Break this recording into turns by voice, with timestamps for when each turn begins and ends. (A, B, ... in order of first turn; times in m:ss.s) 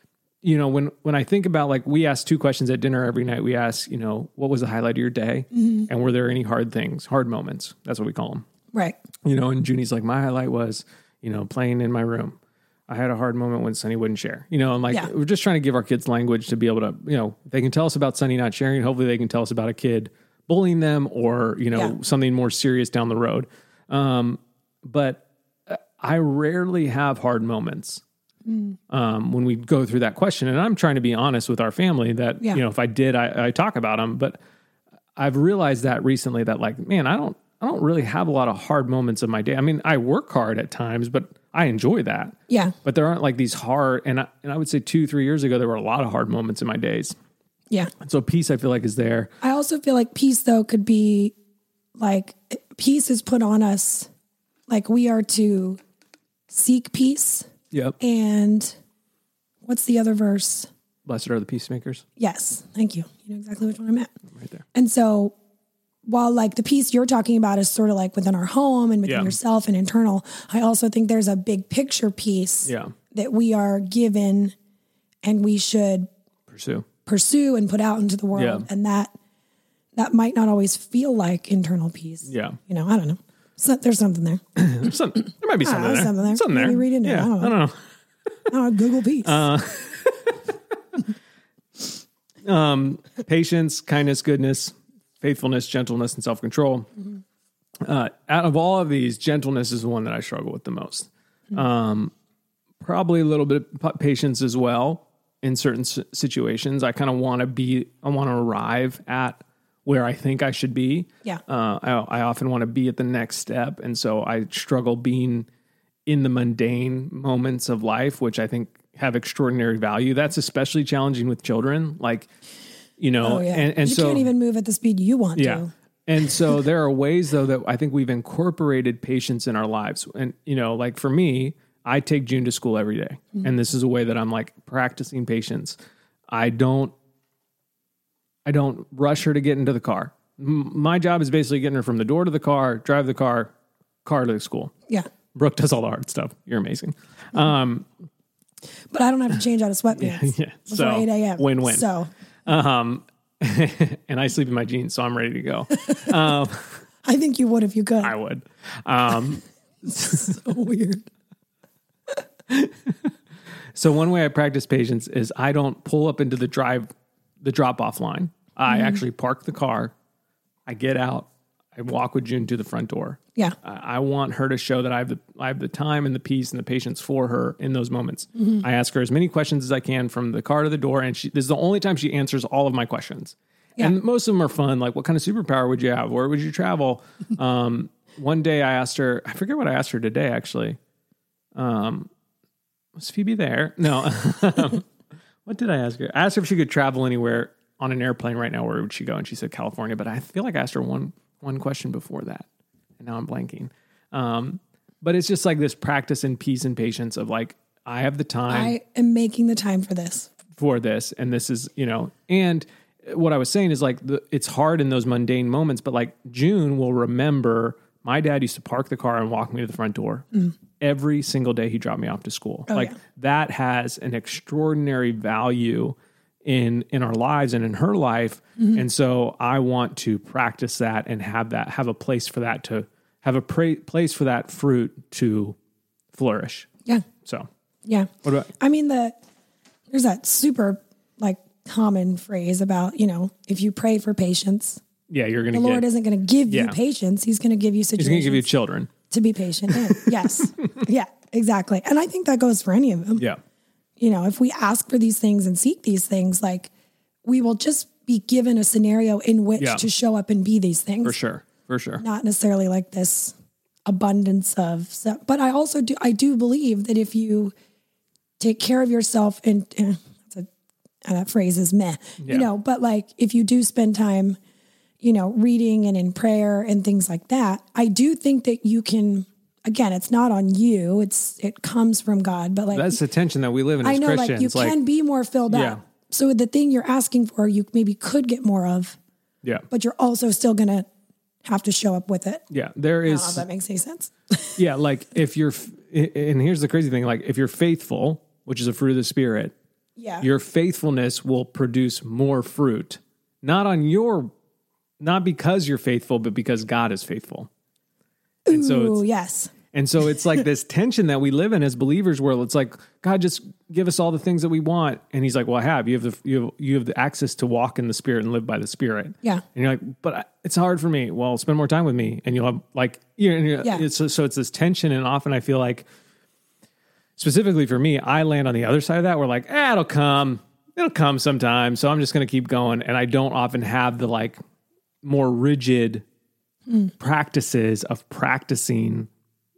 0:00.4-0:08.5 A
0:05.6-0:05.9 B
0:09.2-0:28.0 A
0:28.4-0:28.8 B
0:28.9-0:34.4 A
0:35.2-0:47.1 A
0:42.5-0:42.8 B
0:48.0-0:49.3 A
0:49.4-0:51.3 B
0:52.0-0:54.1 B
0:54.7-0:55.8 B
0:56.5-0:57.5 B
0:57.7-0:58.0 A
0:58.0-0:58.7 B
0:59.6-1:00.7 B
1:01.0-1:02.0 A
1:02.2-1:04.1 B
1:04.3-1:04.6 A
1:04.7-1:05.3 B
1:06.0-1:14.5 B
1:09.0-1:09.3 A
1:12.6-1:12.9 A
1:15.2-1:16.1 B
1:16.5-1:16.9 A
1:17.0-1:19.1 B
1:18.3-1:18.6 A
1:19.9-1:24.9 B
1:22.2-1:22.6 A
1:24.6-1:27.8 A
1:25.6-1:27.5 B
1:28.5-1:29.5 B
1:29.2-1:30.3 A
1:32.4-1:36.9 A
1:37.8-1:42.1 A
1:42.8-1:55.5 A
1:56.1-2:02.3 A
2:03.0-2:04.3 A
2:03.2-2:05.7 B
2:05.4-2:15.8 A
2:06.3-2:06.6 B
2:16.3-2:16.9 A
2:18.4-2:23.5 A
2:24.0-2:24.7 A
2:25.3-2:27.9 A
2:28.9-2:32.1 B
2:30.0-2:31.9 A
2:32.5-2:36.8 A
2:37.0-2:38.1 B
2:38.0-2:40.3 A
2:39.8-2:41.0 B
2:42.5-2:43.1 A
2:43.7-2:46.9 A
2:47.4-2:49.9 A
2:48.7-2:49.0 B
2:50.7-3:10.8 A
3:11.5-3:12.1 A
3:13.0-3:14.9 A
3:15.4-3:22.4 A
3:23.0-3:28.8 A
3:28.5-3:30.3 B
3:30.6-3:55.6 A
3:42.7-3:42.9 B
3:56.1-3:56.7 A
3:57.8-3:59.2 B
3:58.2-3:58.5 A
3:59.9-4:04.8 B
4:05.1-4:05.8 A
4:05.5-4:08.5 B
4:06.5-4:06.8 A
4:08.0-4:08.9 A
4:09.1-4:13.2 B
4:09.7-4:10.1 A
4:14.0-4:16.7 B
4:17.2-4:21.2 B
4:19.6-4:19.8 A
4:21.0-4:22.0 A
4:22.0-4:23.3 B
4:23.8-4:27.5 B
4:28.4-4:30.5 B
4:31.0-4:34.4 B
4:32.2-4:32.5 A
4:35.0-4:43.0 B
4:42.7-4:44.8 A
4:43.8-4:49.0 B
4:45.5-4:45.8 A
4:49.7-4:50.9 B
4:51.4-4:52.4 B
4:52.5-4:53.4 A
4:53.0-4:54.6 B
4:54.6-4:59.5 A
5:00.0-5:00.2 B
5:00.2-5:04.3 A
5:05.0-5:07.5 A
5:08.5-5:09.0 A
5:08.5-5:09.5 B
5:09.7-5:25.8 A
5:27.2-5:34.4 A
5:35.0-5:36.0 A
5:37.0-5:39.1 A